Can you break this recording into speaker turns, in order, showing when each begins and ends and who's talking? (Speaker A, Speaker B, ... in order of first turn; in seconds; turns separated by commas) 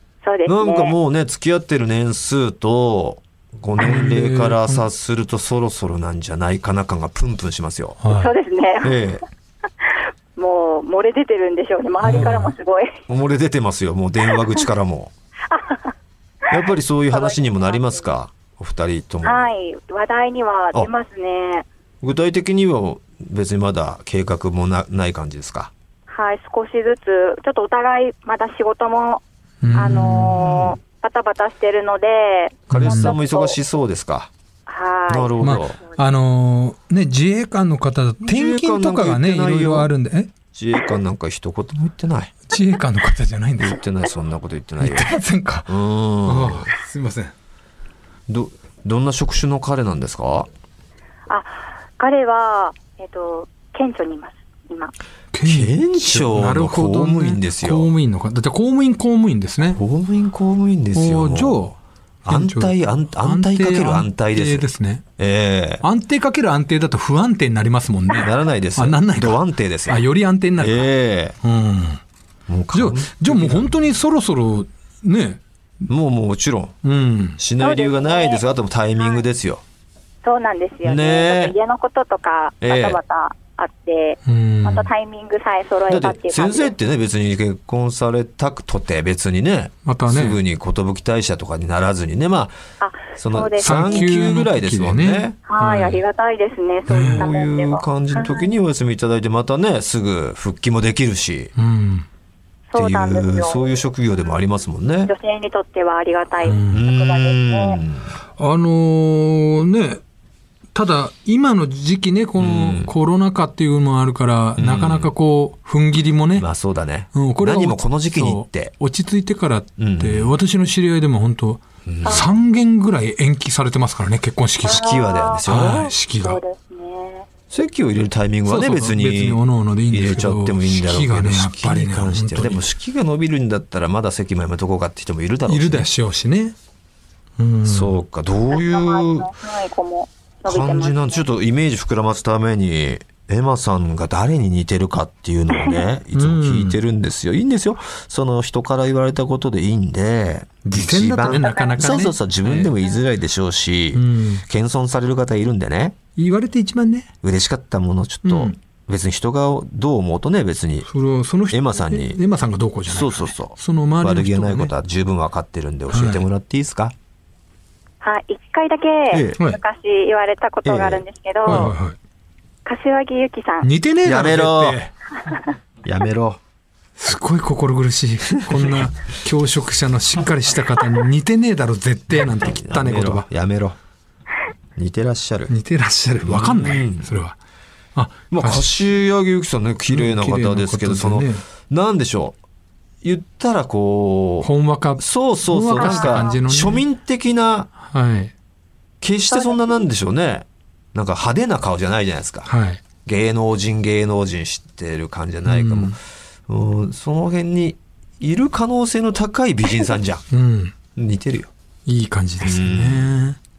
Speaker A: 0.2-0.9, Speaker B: 0.5-8.0, Speaker C: 3.8-4.9, Speaker C: 8.0-8.3, Speaker A: 8.2-9.0, Speaker B: 8.8-9.2, Speaker A: 9.9-13.0, Speaker C: 12.0-12.5, Speaker B: 13.1-15.1, Speaker A: 15.5-15.9, Speaker B: 16.5-19.5, Speaker A: 17.1-18.0, Speaker A: 19.2-21.7, Speaker B: 22.0-25.7, Speaker A: 26.1-29.2, Speaker C: 29.6-30.6, Speaker A: 29.7-33.6, Speaker B: 32.7-34.3, Speaker C: 32.7-33.2, Speaker A: 34.7-36.0, Speaker B: 35.1-35.8, Speaker C: 35.4-40.3, Speaker B: 38.2-39.9, Speaker B: 40.5-42.4, Speaker C: 42.5-43.8, Speaker B: 43.6-46.7, Speaker C: 44.8-45.7, Speaker C: 46.2-47.3, Speaker B: 48.3-50.5, Speaker A: 51.3-54.9, Speaker C: 55.3-59.8, Speaker B: 55.5-57.9, Speaker B: 59.7-61.7, Speaker C: 60.9-65.0, Speaker B: 62.2-64.7, Speaker B: 65.2-65.8, Speaker C: 65.8-72.0, Speaker B: 68.2-70.0, Speaker B: 70.6-71.4, Speaker B: 72.5-73.7, Speaker C: 72.7-75.4, Speaker B: 75.9-76.8, Speaker C: 76.8-77.4, Speaker B: 77.4-79.6, Speaker A: 77.6-78.4, Speaker A: 80.2-86.7, Speaker B: 80.8-81.5, Speaker B: 82.6-83.0, Speaker C: 84.3-84.9, Speaker B: 85.9-92.6, Speaker C: 89.8-90.4, Speaker A: 92.8-94.2, Speaker B: 93.2-95.4, Speaker C: 93.6-96.0, Speaker A: 95.5-98.5, Speaker C: 96.9-97.3, Speaker B: 96.9-101.5, Speaker C: 101.6-102.1, Speaker A: 102.7-103.7, Speaker B: 102.8-105.1, Speaker A: 105.1-107.8, Speaker C: 106.4-106.8, Speaker B: 106.7-108.1, Speaker C: 108.4-110.0, Speaker C: 110.7-116.5, Speaker B: 112.4-112.9, Speaker B: 114.6-115.1, Speaker B: 116.4-118.7, Speaker C: 117.1-124.9, Speaker B: 119.8-120.3, Speaker B: 121.9-122.3, Speaker A: 124.7-125.5, Speaker B: 124.7-125.9, Speaker C: 125.5-126.4, Speaker A: 126.1-127.3, Speaker B: 127.5-135.9, Speaker C: 128.5-132.7, Speaker C: 135.5-136.6, Speaker C: 137.4-138.0, Speaker B: 137.7-139.3, Speaker A: 138.5-141.2, Speaker B: 140.5-156.0, Speaker A: 145.5-145.8, Speaker C: 146.1-146.8, Speaker C: 150.6-152.7, Speaker A: 151.3-152.0, Speaker C: 153.9-154.4, Speaker C: 156.2-157.1, Speaker B: 157.2-160.9, Speaker C: 158.2-158.6, Speaker C: 160.8-164.7, Speaker B: 161.5-162.2, Speaker B: 162.9-166.9, Speaker C: 165.9-166.2, Speaker A: 168.0-171.7, Speaker B: 169.1-169.4, Speaker B: 170.7-171.7, Speaker C: 171.5-172.0, Speaker A: 172.7-173.7, Speaker C: 173.6-174.9, Speaker B: 174.1-174.8, Speaker B: 175.8-176.4, Speaker C: 177.0-183.3, Speaker B: 182.4-183.8, Speaker B: 184.8-185.5, Speaker C: 185.5-187.4, Speaker B: 186.2-187.1, Speaker C: 187.9-188.7, Speaker B: 188.3-192.4, Speaker C: 189.9-191.4, Speaker B: 193.0-197.7, Speaker C: 194.4-196.8, Speaker A: 195.8-196.4, Speaker C: 197.8-198.3, Speaker B: 199.0-202.5, Speaker A: 199.3-199.7, Speaker C: 202.5-202.8, Speaker B: 203.1-210.2, Speaker C: 205.5-206.0, Speaker C: 210.3-210.8, Speaker B: 211.0-211.5, Speaker C: 211.9-213.4, Speaker B: 212.4-213.2